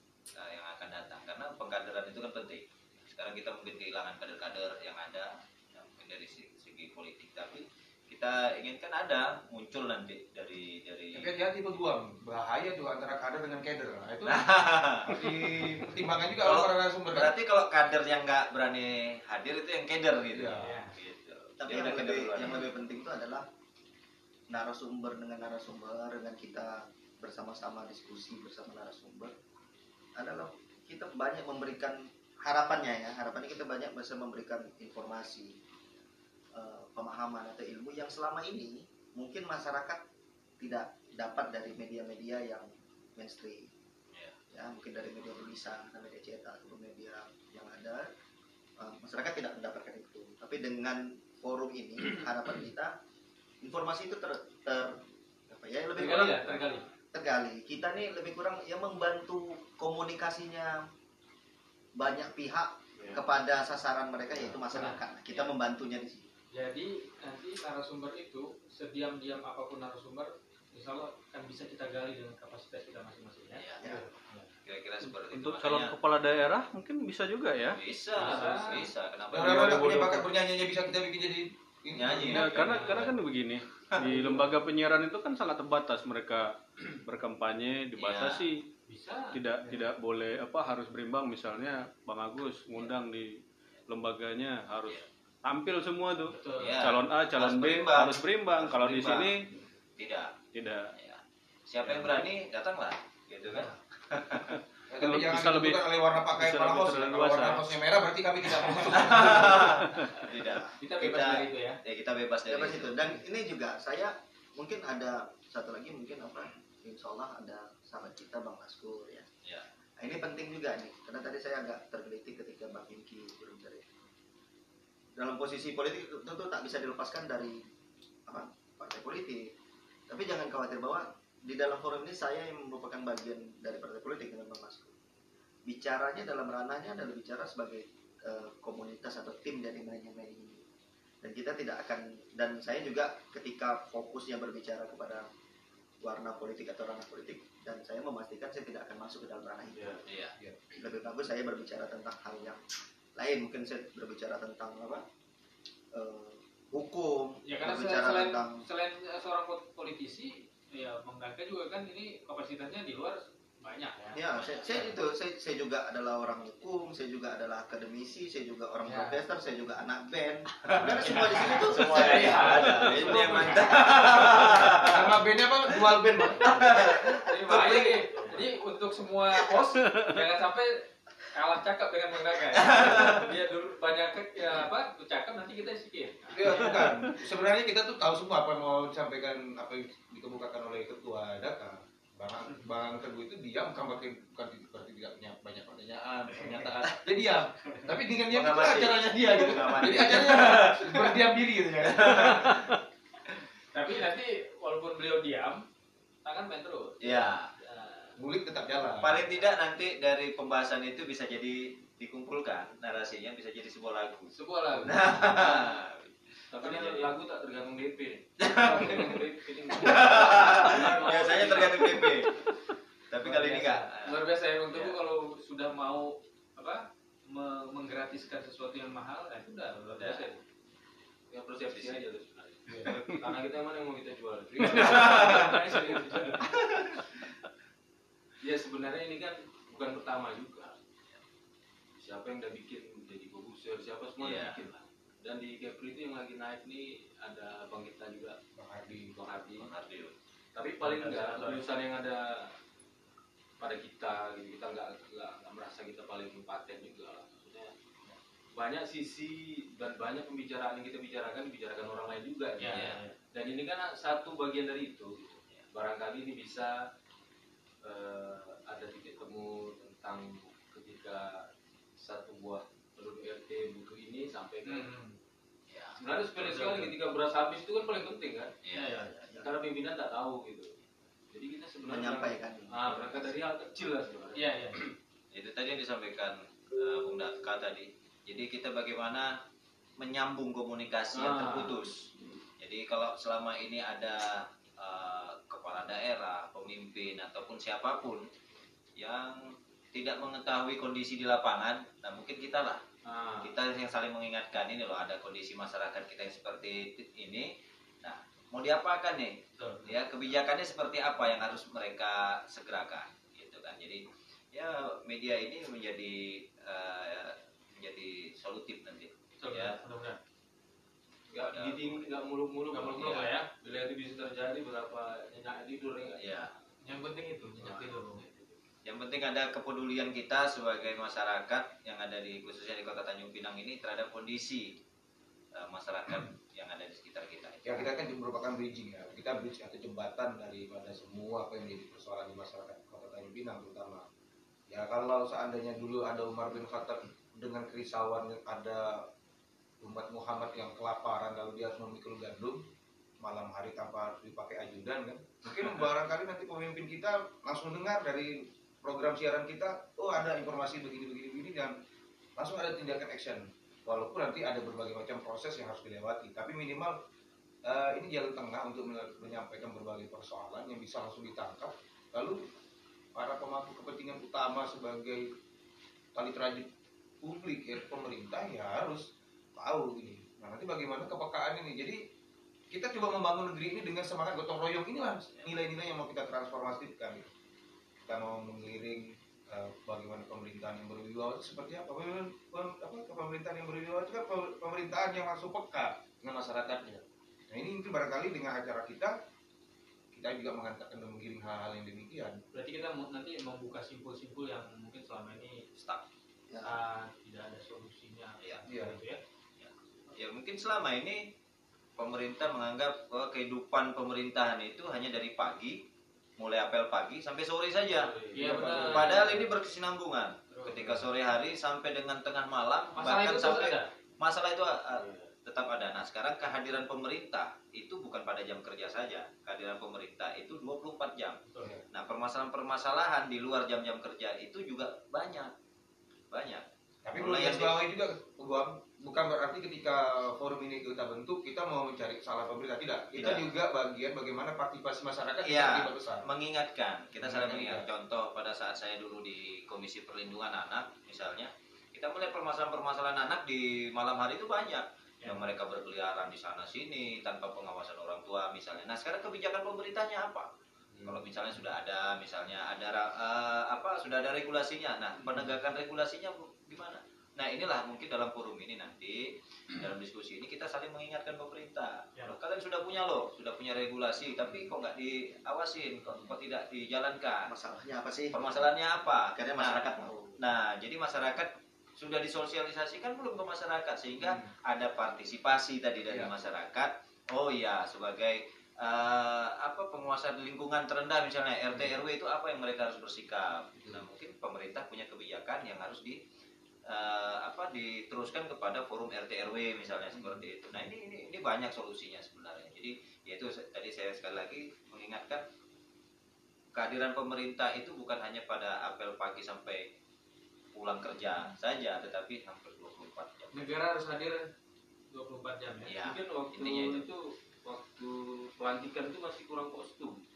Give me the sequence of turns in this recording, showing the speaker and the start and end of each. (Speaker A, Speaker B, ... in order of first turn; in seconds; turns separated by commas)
Speaker A: 0.3-11.3, Speaker B: 11.1-17.3, Speaker A: 14.2-15.1, Speaker A: 16.4-22.6, Speaker B: 20.3-20.8, Speaker C: 20.5-20.9, Speaker D: 21.6-23.4, Speaker D: 24.5-29.3, Speaker D: 30.1-35.6, Speaker D: 36.5-40.0, Speaker D: 40.6-43.7, Speaker D: 44.5-48.1, Speaker D: 48.8-53.0, Speaker D: 53.6-60.9, Speaker C: 56.0-56.9, Speaker D: 62.0-66.3, Speaker C: 66.5-74.5, Speaker A: 73.6-73.9, Speaker A: 74.6-75.9, Speaker E: 75.2-77.8, Speaker A: 77.7-80.0, Speaker C: 78.1-78.9, Speaker F: 78.2-78.8, Speaker B: 79.3-82.8, Speaker E: 79.5-80.2, Speaker A: 81.9-83.1, Speaker E: 82.1-88.6, Speaker C: 82.4-83.1, Speaker C: 84.0-84.5, Speaker A: 88.0-88.5, Speaker C: 88.9-89.7, Speaker E: 89.3-99.5, Speaker C: 96.2-96.9, Speaker A: 96.6-99.4, Speaker A: 100.0-100.3, Speaker E: 100.5-100.9, Speaker A: 100.9-104.6, Speaker B: 104.9-109.8, Speaker E: 105.0-107.7, Speaker A: 108.9-113.0, Speaker E: 109.8-110.2, Speaker C: 110.8-111.8, Speaker D: 112.5-119.2, Speaker D: 120.0-123.9, Speaker D: 125.2-127.7, Speaker D: 128.3-129.5, Speaker D: 130.1-134.9, Speaker D: 135.7-140.6, Speaker D: 141.2-145.3, Speaker D: 146.0-150.0, Speaker A: 150.1-150.3, Speaker D: 150.8-152.6, Speaker D: 153.2-155.0, Speaker D: 155.9-158.6, Speaker C: 157.4-164.4, Speaker D: 164.1-172.7, Speaker A: 164.3-164.8, Speaker A: 170.6-175.1, Speaker C: 171.1-173.9, Speaker B: 174.0-178.0, Speaker A: 176.4-177.2, Speaker C: 177.1-186.8, Speaker F: 178.1-178.4, Speaker A: 182.6-183.3, Speaker B: 186.3-202.7, Speaker A: 198.3-201.2, Speaker A: 201.8-202.7, Speaker C: 203.7-205.7, Speaker C: 206.2-208.1, Speaker A: 207.0-207.5, Speaker B: 208.2-209.3, Speaker A: 209.0-217.1, Speaker C: 214.3-215.7, Speaker F: 216.5-222.2, Speaker A: 218.4-222.4, Speaker A: 223.1-224.9, Speaker F: 223.2-223.7, Speaker C: 223.4-230.4, Speaker A: 229.9-230.3, Speaker F: 231.3-236.8, Speaker A: 231.7-232.0, Speaker A: 234.7-235.5, Speaker F: 238.4-240.8, Speaker F: 242.0-248.4, Speaker A: 244.2-244.6, Speaker B: 248.6-249.2, Speaker F: 249.1-249.7, Speaker A: 249.6-250.1, Speaker F: 250.5-252.5, Speaker C: 251.0-251.6, Speaker A: 251.1-251.6, Speaker F: 253.6-257.7, Speaker F: 258.5-266.8, Speaker C: 262.6-263.2, Speaker A: 262.7-263.0, Speaker F: 267.8-274.9, Speaker C: 274.6-275.2, Speaker A: 275.7-276.9, Speaker F: 276.0-278.5, Speaker A: 278.6-279.1, Speaker C: 278.7-279.1, Speaker D: 279.1-279.5, Speaker F: 279.4-280.7, Speaker F: 281.3-284.9, Speaker D: 281.9-282.9, Speaker C: 284.4-284.9, Speaker A: 285.3-289.4, Speaker A: 290.0-298.3, Speaker F: 291.1-291.8, Speaker A: 298.9-302.8, Speaker F: 303.0-303.5, Speaker A: 303.4-307.5, Speaker A: 308.0-319.8, Speaker C: 309.6-309.9, Speaker C: 319.4-320.2, Speaker F: 321.3-326.4, Speaker A: 321.5-322.1, Speaker C: 322.7-323.5, Speaker A: 326.2-326.5, Speaker C: 326.8-328.2, Speaker F: 327.6-328.6, Speaker A: 328.8-334.8, Speaker A: 335.5-337.9, Speaker B: 337.6-344.1, Speaker B: 344.7-349.1, Speaker B: 349.8-352.6, Speaker B: 353.2-361.7, Speaker B: 362.4-367.0, Speaker B: 367.6-372.5, Speaker B: 373.1-375.3, Speaker B: 376.1-376.7, Speaker B: 377.2-382.0, Speaker B: 382.7-387.3, Speaker B: 388.0-399.2, Speaker B: 400.1-402.4, Speaker C: 402.5-405.6, Speaker A: 405.8-406.0, Speaker D: 406.5-406.8, Speaker C: 406.6-409.2, Speaker B: 408.7-409.0, Speaker A: 409.6-411.3, Speaker A: 412.0-415.8, Speaker A: 416.4-418.1, Speaker F: 417.9-419.4, Speaker C: 418.3-419.4, Speaker B: 418.4-419.1, Speaker A: 418.7-435.5, Speaker C: 420.5-420.8, Speaker B: 420.8-421.0, Speaker C: 422.9-423.9, Speaker F: 424.9-425.3, Speaker C: 431.4-431.7, Speaker A: 436.3-436.6, Speaker B: 437.0-446.3, Speaker A: 437.2-437.7, Speaker A: 443.1-443.5, Speaker A: 445.4-460.5, Speaker B: 447.2-447.9, Speaker C: 455.2-455.5, Speaker A: 461.0-477.5, Speaker D: 477.4-478.6, Speaker A: 478.3-496.2, Speaker D: 479.3-480.4, Speaker B: 493.8-494.1, Speaker A: 496.9-505.4, Speaker A: 506.7-509.9, Speaker A: 510.7-513.7, Speaker C: 513.5-514.5, Speaker C: 515.1-516.0, Speaker A: 515.9-517.0, Speaker F: 516.0-520.2